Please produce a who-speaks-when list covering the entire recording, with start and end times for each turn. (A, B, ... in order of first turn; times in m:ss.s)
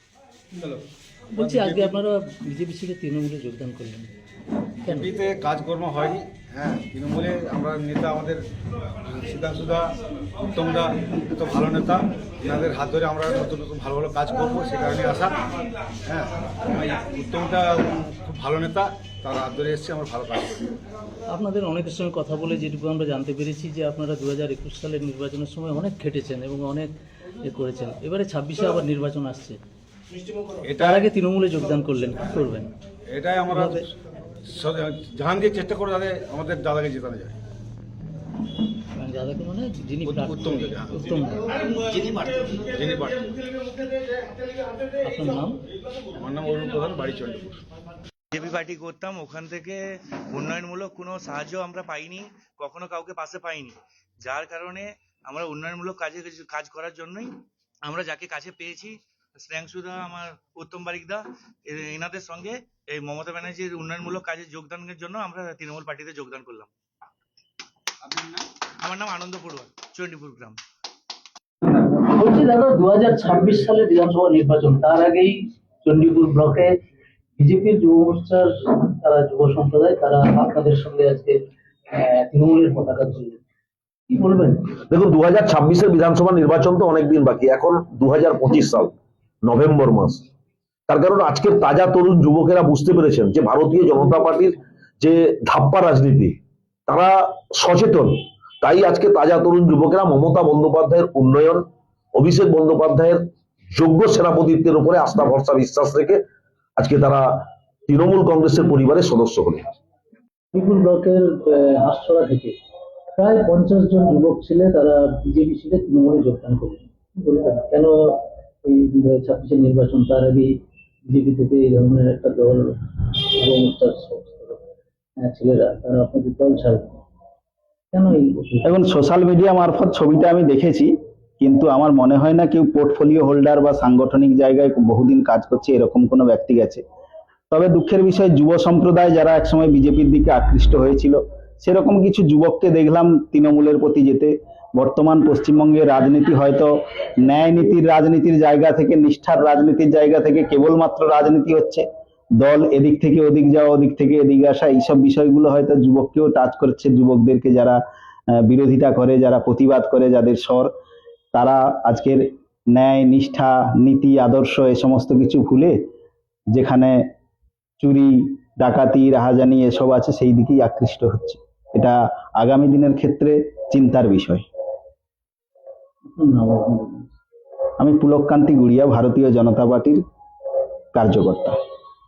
0:01.3-0:04.1 A
0:01.4-0:02.0 B
0:04.8-0:05.1 A
0:04.8-0:08.4 B
0:09.0-0:09.9 B
0:10.5-0:15.4 B
0:16.0-0:20.6 B
0:21.3-0:29.6 A
0:30.6-0:31.1 B
0:30.8-0:32.7 A
0:33.1-0:33.9 B
0:33.5-0:33.9 A
0:34.5-0:37.3 B
0:39.0-0:41.5 A
0:40.0-0:41.1 B
0:42.5-0:43.3 B
0:45.0-0:45.6 A
0:46.2-0:47.6 B
0:48.3-0:49.8 C
0:50.3-0:57.3 C
0:57.8-1:06.7 C
1:08.8-1:10.6 C
1:11.8-1:16.7 A
1:17.4-1:23.4 A
1:24.1-1:24.8 A
1:24.9-1:30.2 D
1:30.9-1:46.2 D
1:46.8-1:49.7 D
1:50.5-1:52.6 A
1:53.2-2:00.5 A
2:01.1-2:04.6 A
2:05.2-2:07.0 A
2:07.9-2:08.6 A
2:08.6-2:16.8 E
2:17.5-2:31.8 E
2:32.4-2:37.8 E
2:38.4-2:40.7 E
2:41.3-2:45.7 E
2:46.5-2:47.0 E
2:47.8-2:54.4 E
2:56.1-2:57.1 A
2:57.8-3:00.0 E
3:00.9-3:01.6 E